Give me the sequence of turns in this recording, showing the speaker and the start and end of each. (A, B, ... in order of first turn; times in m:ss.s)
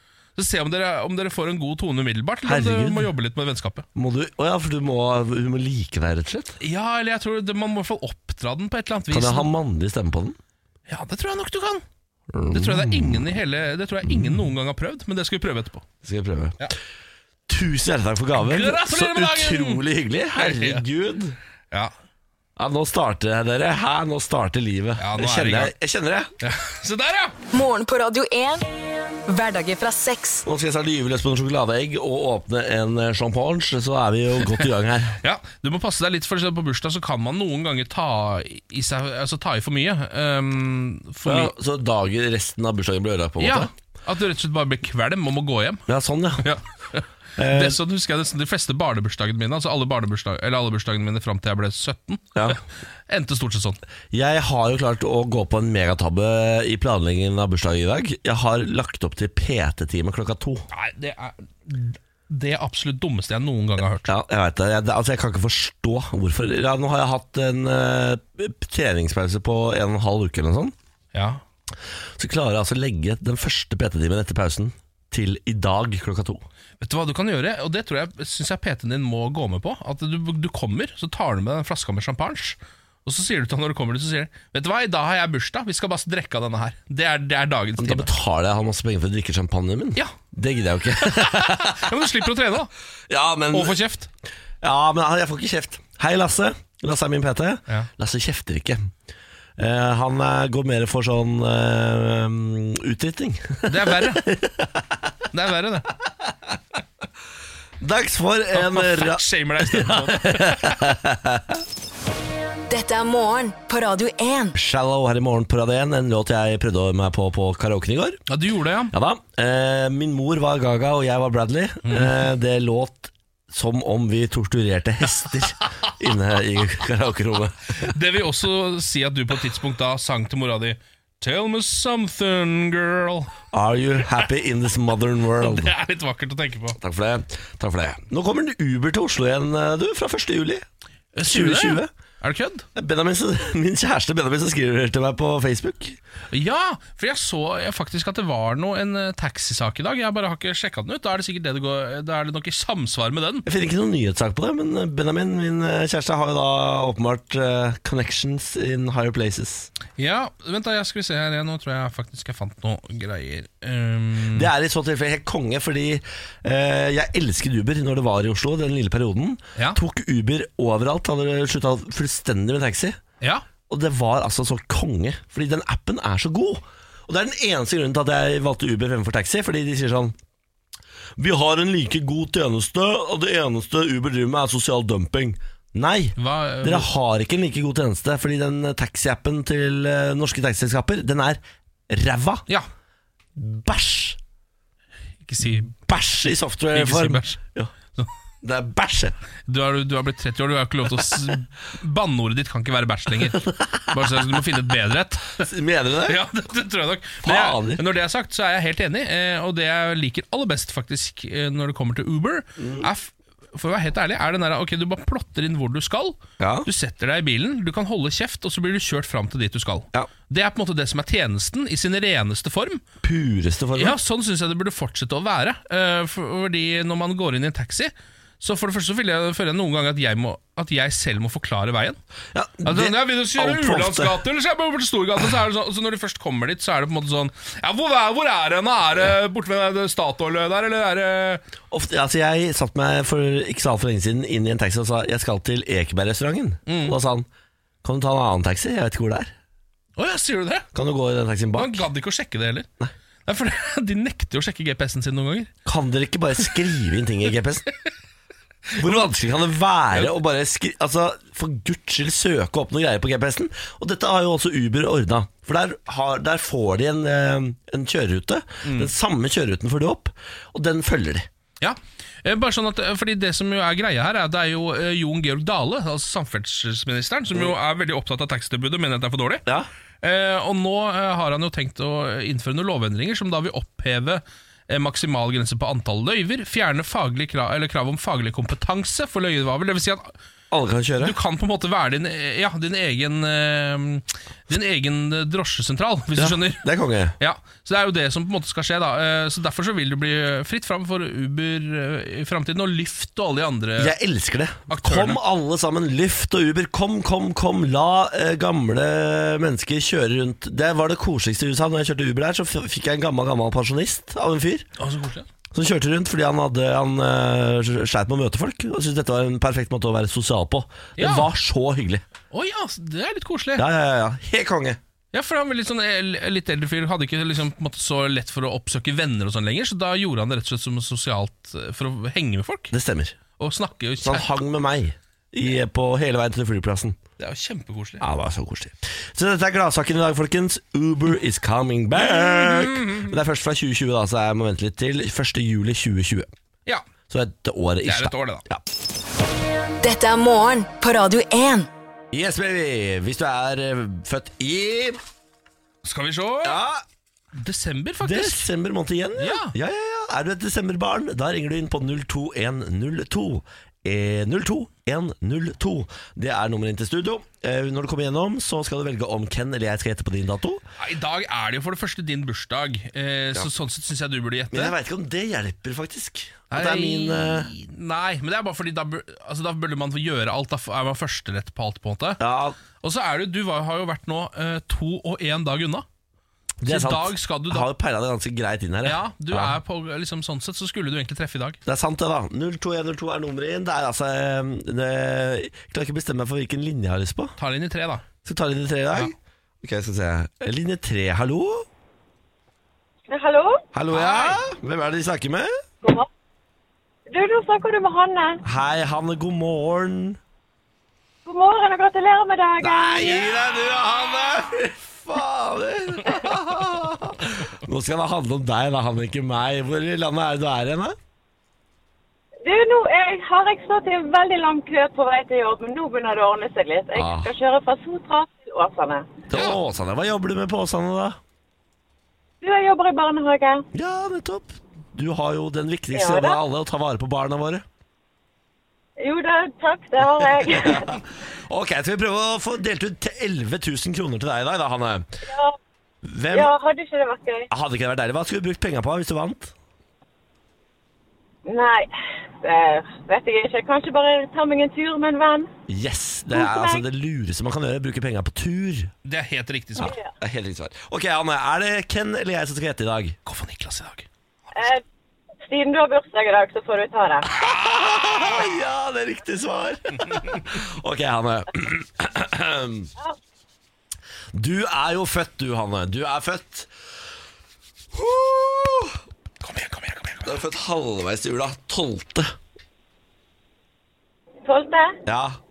0:00.4-0:03.8 A
0:02.4-0:03.1 B
0:03.9-0:06.6 B
0:06.6-0:09.5 A
0:09.1-0:10.4 B
0:10.9-0:11.8 A
0:12.3-0:13.2 B
0:12.5-0:15.8 A
0:16.0-0:16.6 B
0:17.5-0:21.4 B
0:18.4-0:19.8 A
0:20.3-0:20.8 A
0:22.6-0:26.3 B
0:25.0-0:25.7 A
0:26.4-0:27.3 A
0:27.5-0:28.6 C
0:29.3-0:30.4 C
0:30.4-0:35.2 B
0:35.2-0:41.5 A
0:41.2-0:43.7 B
0:43.4-0:45.8 A
0:45.9-0:46.5 B
0:46.4-0:53.8 A
0:47.4-0:47.8 B
0:54.1-1:00.7 B
1:00.7-1:04.1 A
1:04.0-1:10.7 B
1:11.1-1:11.4 A
1:12.2-1:16.4 B
1:16.8-1:28.1 A
1:27.8-1:32.0 B
1:31.0-1:32.7 A
1:33.1-1:33.8 B
1:33.5-1:34.1 A
1:34.6-1:38.9 B
1:39.6-1:44.8 B
1:43.7-1:44.2 A
1:45.3-1:45.9 A
1:47.8-1:51.6 B
1:48.5-1:50.8 A
1:52.7-1:54.6 C
1:54.6-1:58.2 B
1:58.3-1:58.9 A
1:58.9-2:07.8 B
2:01.8-2:02.2 A
2:07.8-2:13.3 A
2:13.5-2:15.7 B
2:15.4-2:16.8 A
2:16.8-2:20.6 B
2:21.1-2:22.6 A
2:21.2-2:21.9 B
2:22.7-2:26.0 B
2:26.3-2:33.4 A
2:33.4-2:39.7 B
2:40.0-2:44.5 A
2:44.3-2:53.0 B
2:53.7-3:00.2 B
3:01.2-3:12.4 B
3:06.2-3:06.9 A
3:13.4-3:14.2 B
3:15.2-3:15.7 A
3:15.7-3:17.7 B
3:16.7-3:17.4 A
3:18.4-3:19.2 B
3:19.5-3:25.5 A
3:23.5-3:24.2 B
3:25.4-3:26.2 B
3:26.1-3:42.8 A
3:27.2-3:27.8 B
3:32.6-3:32.9 B
3:36.4-3:36.7 B
3:43.0-3:44.0 B
3:43.8-3:52.0 A
3:52.3-3:54.2 B
3:52.6-4:01.4 A
4:01.7-4:07.3 B
4:06.7-4:07.0 A
4:07.8-4:09.3 B
4:10.0-4:10.6 A
4:10.7-4:11.8 B
4:11.6-4:12.7 A
4:13.3-4:15.5 A
4:15.6-4:17.7 B
4:18.7-4:19.1 A
4:18.8-4:31.3 B
4:28.6-4:28.9 A
4:31.6-4:39.4 A
4:40.0-4:50.1 A
4:50.5-4:51.2 B
4:51.0-4:56.6 A
4:56.2-4:57.1 B
4:57.2-5:03.9 A
5:03.8-5:14.7 B
5:04.7-5:05.2 A
5:14.8-5:15.3 A
5:15.5-5:22.0 B
5:21.0-5:21.3 A
5:22.3-5:23.6 A
5:23.6-5:24.8 B
5:25.1-5:32.7 A
5:32.7-5:33.2 B
5:33.4-5:34.3 A
5:34.0-5:37.0 B
5:37.2-5:38.0 A
5:38.0-5:46.3 B
5:42.0-5:43.1 A
5:47.1-5:48.6 B
5:47.8-5:48.4 A
5:49.8-5:51.7 C
5:52.1-5:55.0 B
5:55.8-5:56.6 A
5:56.4-5:56.8 B
5:57.3-5:58.5 A
5:58.0-6:10.6 B
5:59.2-5:59.5 A
6:10.8-6:14.7 A
6:14.5-6:17.5 B
6:16.5-6:22.2 A
6:22.2-6:22.6 B
6:22.8-6:25.8 A
6:26.6-6:29.6 B
6:26.6-6:27.7 A
6:28.8-6:31.6 A
6:31.6-6:37.3 B
6:37.4-6:38.0 A
6:38.2-6:41.6 B
6:43.1-6:43.6 D
6:43.7-6:45.5 B
6:43.9-6:44.4 A
6:45.8-6:46.1 D
6:47.1-6:48.4 D
6:48.4-6:50.2 B
6:51.2-6:53.3 D
6:52.6-7:01.0 B
6:53.0-6:53.3 A
7:02.4-7:09.1 D
7:06.9-7:07.3 B
7:09.3-7:11.2 B
7:09.3-7:09.6 A
7:12.4-7:13.6 D
7:13.7-7:17.6 B
7:15.9-7:16.4 D
7:19.0-7:21.0 D
7:20.5-7:25.1 B
7:25.2-7:25.6 D
7:26.0-7:26.5 B
7:26.3-7:27.5 D
7:27.5-7:29.5 B
7:31.4-7:35.5 D
7:35.7-7:38.9 B
7:36.3-7:36.8 D
7:39.0-7:39.9 A
7:39.8-7:43.2 B
7:39.8-7:40.1 D
7:43.2-7:44.1 A
7:44.5-7:44.8 D
7:45.4-7:47.3 D
7:47.3-7:52.9 B
7:54.3-7:56.7 B
7:57.9-7:59.0 B
7:59.4-8:00.4 A
8:00.2-8:02.3 B
8:04.4-8:05.0 D
8:05.0-8:05.4 B